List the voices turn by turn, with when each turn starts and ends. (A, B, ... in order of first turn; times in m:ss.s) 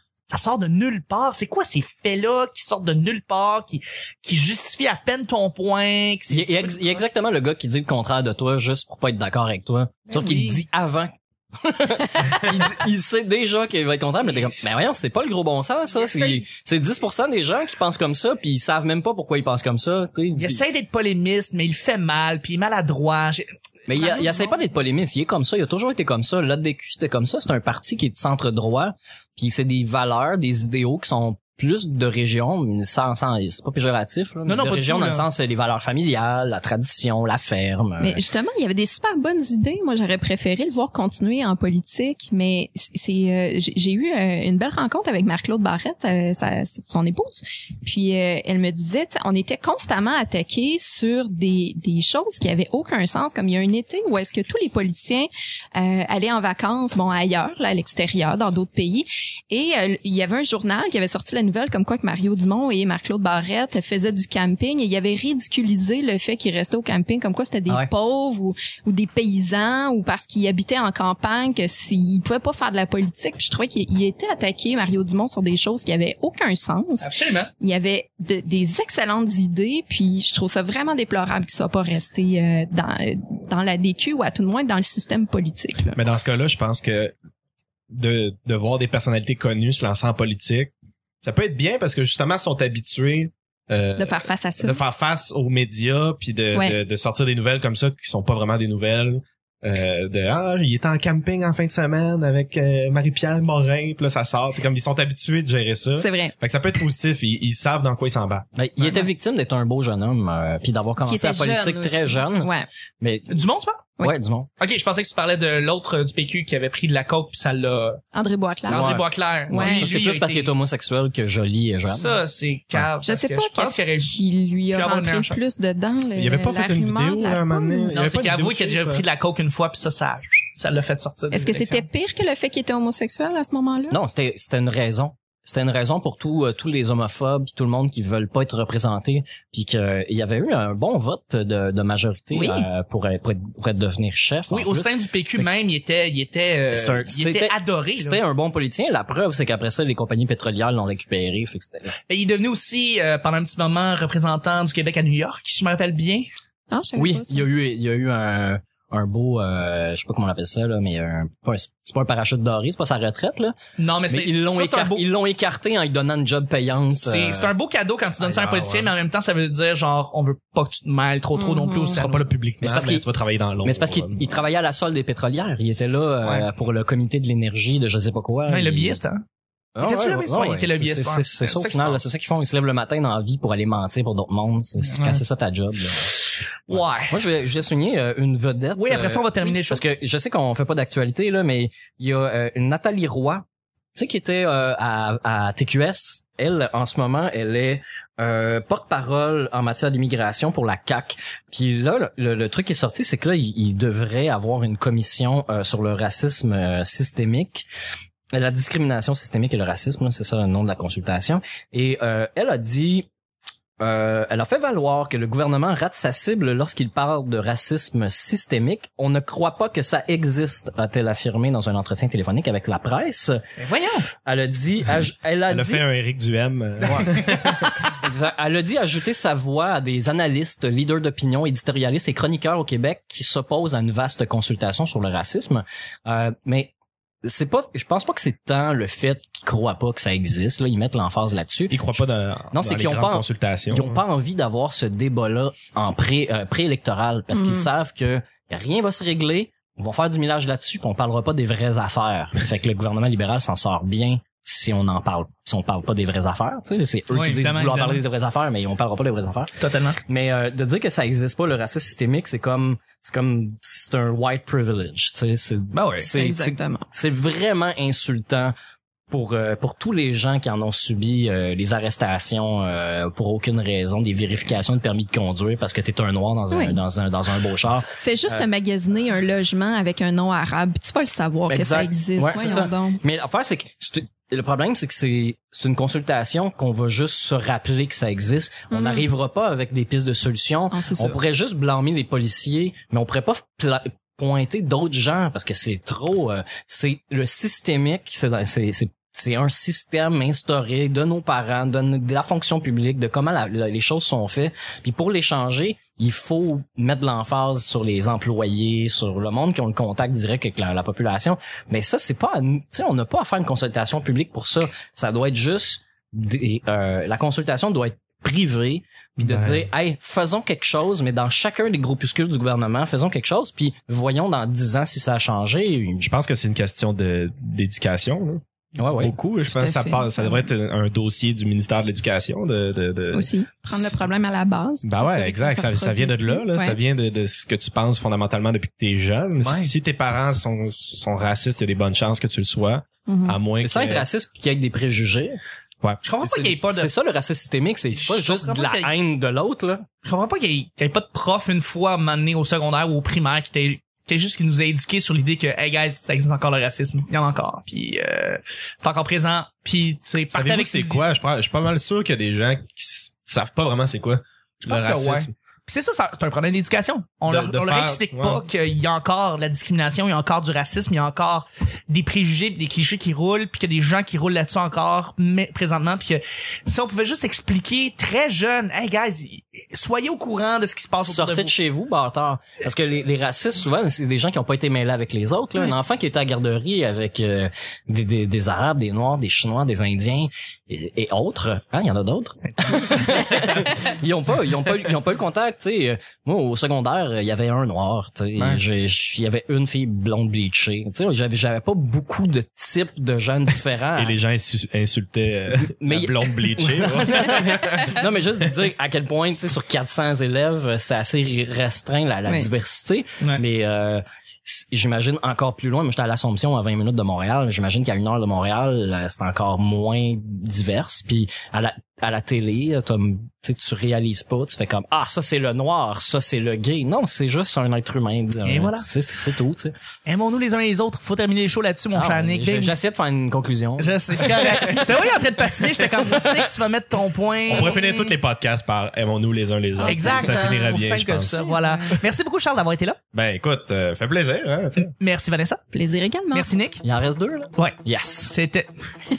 0:00.3-0:07.0 A
0:06.3-0:20.6 B
0:10.1-0:10.6 A
0:14.3-0:14.8 A
0:15.9-0:16.4 A
0:20.4-0:24.6 A
0:23.9-0:38.2 B
0:34.4-0:35.3 A
0:38.0-1:26.0 C
1:17.0-1:17.5 A
1:25.9-1:27.1 D
1:27.9-1:30.7 D
1:31.2-1:48.4 D
1:34.0-1:34.8 C
1:36.5-1:36.8 C
1:46.0-1:46.3 C
1:48.6-1:53.4 B
1:48.8-1:49.1 A
1:51.0-1:52.7 C
1:53.3-1:53.9 A
1:54.0-1:54.5 B
1:54.6-1:58.0 A
1:58.1-1:58.9 C
1:58.7-2:00.5 A
1:58.7-2:02.2 B
1:59.5-1:59.9 C
2:01.8-2:04.1 A
2:03.0-2:08.0 C
2:04.7-2:05.4 A
2:06.2-2:09.0 D
2:07.9-2:11.8 A
2:11.3-2:14.0 C
2:13.9-2:25.5 B
2:22.3-2:22.7 C
2:24.5-2:28.2 A
2:26.7-2:31.9 B
2:32.1-2:36.2 A
2:36.7-2:37.4 C
2:37.0-2:43.5 B
2:43.8-2:45.0 A
2:44.1-2:47.5 B
2:46.9-2:52.3 A
2:48.2-2:48.9 D
2:51.3-2:52.0 C
2:51.9-2:54.3 D
2:52.6-2:53.0 B
2:53.6-2:59.0 B
2:56.2-2:56.5 A
2:58.5-2:59.2 A
2:59.8-3:06.1 B
2:59.8-3:02.0 A
3:04.8-3:05.2 A
3:06.7-3:07.2 A
3:06.7-3:27.6 B
3:08.7-3:09.8 A
3:28.3-3:33.1 B
3:33.8-3:43.4 B
3:43.6-3:44.1 A
3:44.2-3:45.8 B
3:45.5-3:47.8 D
3:46.8-3:56.7 B
3:57.2-4:02.0 B
4:01.7-4:04.0 D
4:02.5-4:19.5 B
4:07.3-4:07.7 C
4:17.1-4:18.0 A
4:19.6-4:20.0 A
4:20.0-4:28.5 B
4:25.7-4:26.1 A
4:26.1-4:26.8 C
4:29.1-4:38.5 B
4:36.5-4:36.8 C
4:37.9-4:43.0 C
4:41.5-5:26.1 B
4:48.7-4:49.1 C
4:50.7-4:51.2 C
5:19.2-5:19.7 D
5:26.0-5:34.0 D
5:28.8-5:29.1 B
5:29.5-5:30.5 C
5:33.1-5:36.8 C
5:34.8-5:44.0 D
5:39.4-5:39.7 A
5:43.1-5:43.4 C
5:43.6-5:45.4 B
5:46.0-5:46.9 A
5:46.2-5:49.8 B
5:47.9-5:48.9 A
5:50.0-6:01.0 A
6:00.3-6:05.3 D
6:04.6-6:21.5 A
6:07.3-6:08.4 D
6:21.0-6:44.1 B
6:32.5-6:33.0 A
6:43.9-6:48.0 D
6:45.6-7:09.7 B
7:08.4-7:08.9 A
7:10.0-7:12.8 A
7:11.9-7:15.2 B
7:13.8-7:17.8 A
7:17.5-7:21.5 D
7:17.6-7:18.1 C
7:19.8-7:20.8 C
7:19.9-7:23.0 A
7:21.4-7:22.0 C
7:23.1-7:24.9 D
7:24.9-7:25.6 A
7:25.7-7:26.5 C
7:26.3-7:26.8 A
7:26.8-7:28.3 B
7:27.6-7:28.7 A